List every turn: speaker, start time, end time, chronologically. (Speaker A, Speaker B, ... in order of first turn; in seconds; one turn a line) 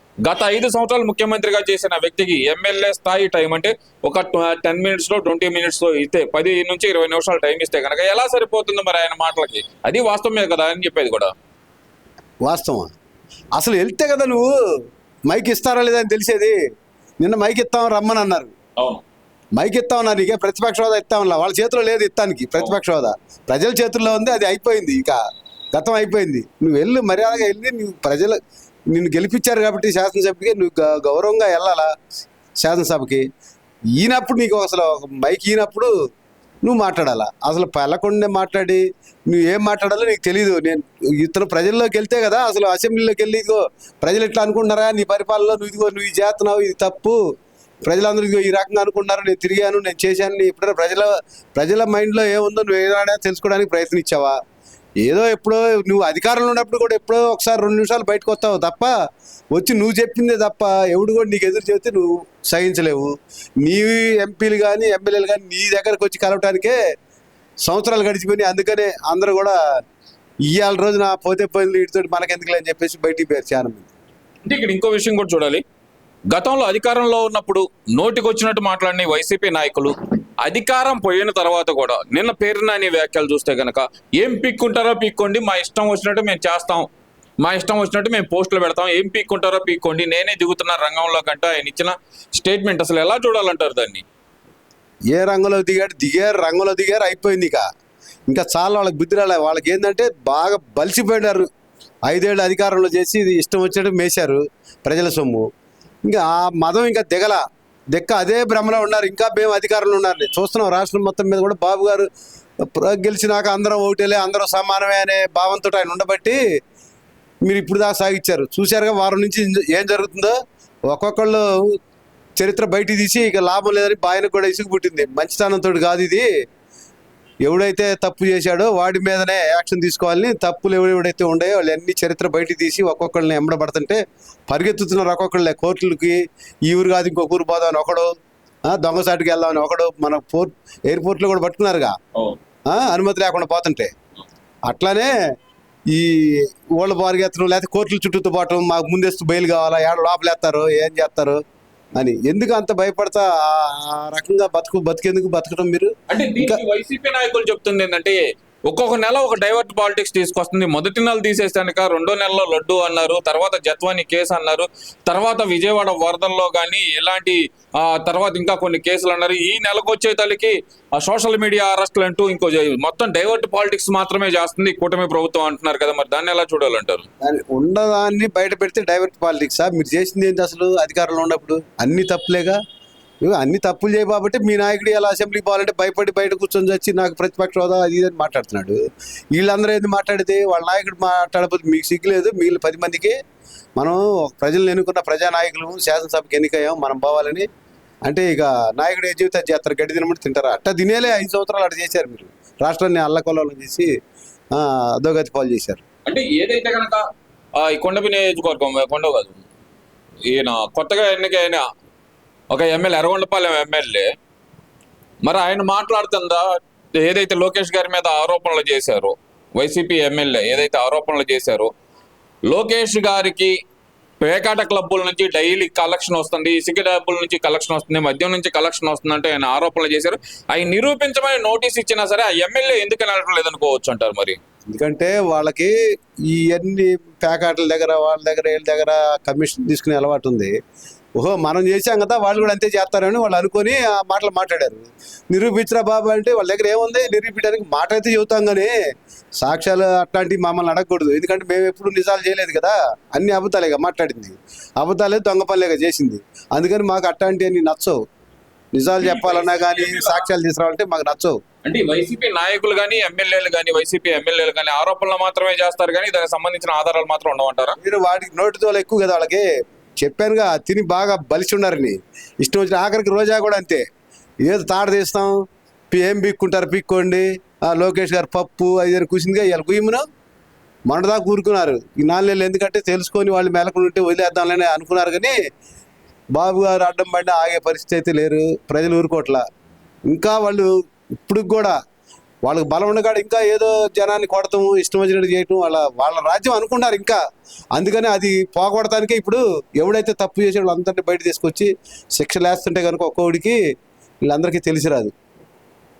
Speaker A: 0.2-11.3
Speaker B: 12.4-12.9
Speaker B: 13.6-14.5
Speaker B: 15.3-16.6
Speaker B: 17.2-18.5
Speaker A: 18.8-19.0
Speaker B: 19.6-25.2
Speaker B: 25.7-28.4
Speaker B: 28.9-31.9
Speaker B: 32.6-33.2
Speaker B: 34.0-35.9
Speaker B: 36.6-47.2
Speaker B: 47.9-54.4
Speaker B: 55.0-58.9
Speaker B: 59.5-66.8
Speaker B: 67.6-69.5
Speaker B: 70.5-73.9
Speaker A: 74.5-75.6
Speaker A: 76.3-86.9
Speaker A: 87.4-94.0
Speaker B: 95.1-97.6
Speaker B: 98.3-101.5
Speaker B: 102.1-105.4
Speaker B: 106.1-107.4
Speaker B: 107.9-112.1
Speaker B: 112.6-116.4
Speaker B: 117.4-120.3
Speaker B: 120.9-121.7
Speaker B: 122.4-126.3
Speaker B: 127.4-138.1
Speaker B: 138.7-141.9
Speaker B: 142.7-143.9
Speaker B: 144.7-145.1
Speaker B: 145.9-151.4
Speaker B: 151.9-156.6
Speaker A: 156.1-177.1
Speaker B: 177.2-182.6
Speaker B: 183.2-188.8
Speaker B: 189.3-193.1
Speaker B: 193.8-197.4
Speaker B: 198.1-203.9
Speaker B: 204.5-205.8
Speaker A: 206.1-207.0
Speaker A: 207.6-209.4
Speaker A: 210.2-211.6
Speaker A: 212.5-214.1
Speaker A: 215.2-221.7
Speaker A: 222.5-223.6
Speaker A: 224.2-234.4
Speaker B: 234.7-235.7
Speaker B: 236.3-240.5
Speaker B: 241.2-248.7
Speaker B: 249.4-258.0
Speaker B: 258.7-261.4
Speaker A: 259.0-260.2
Speaker A: 261.6-267.8
Speaker B: 267.8-269.4
Speaker B: 270.0-273.8
Speaker B: 274.4-275.4
Speaker B: 275.9-280.0
Speaker B: 280.9-285.3
Speaker B: 286.3-289.4
Speaker B: 290.1-290.7
Speaker B: 291.2-291.7
Speaker B: 292.4-297.2
Speaker B: 297.7-303.6
Speaker B: 304.2-305.1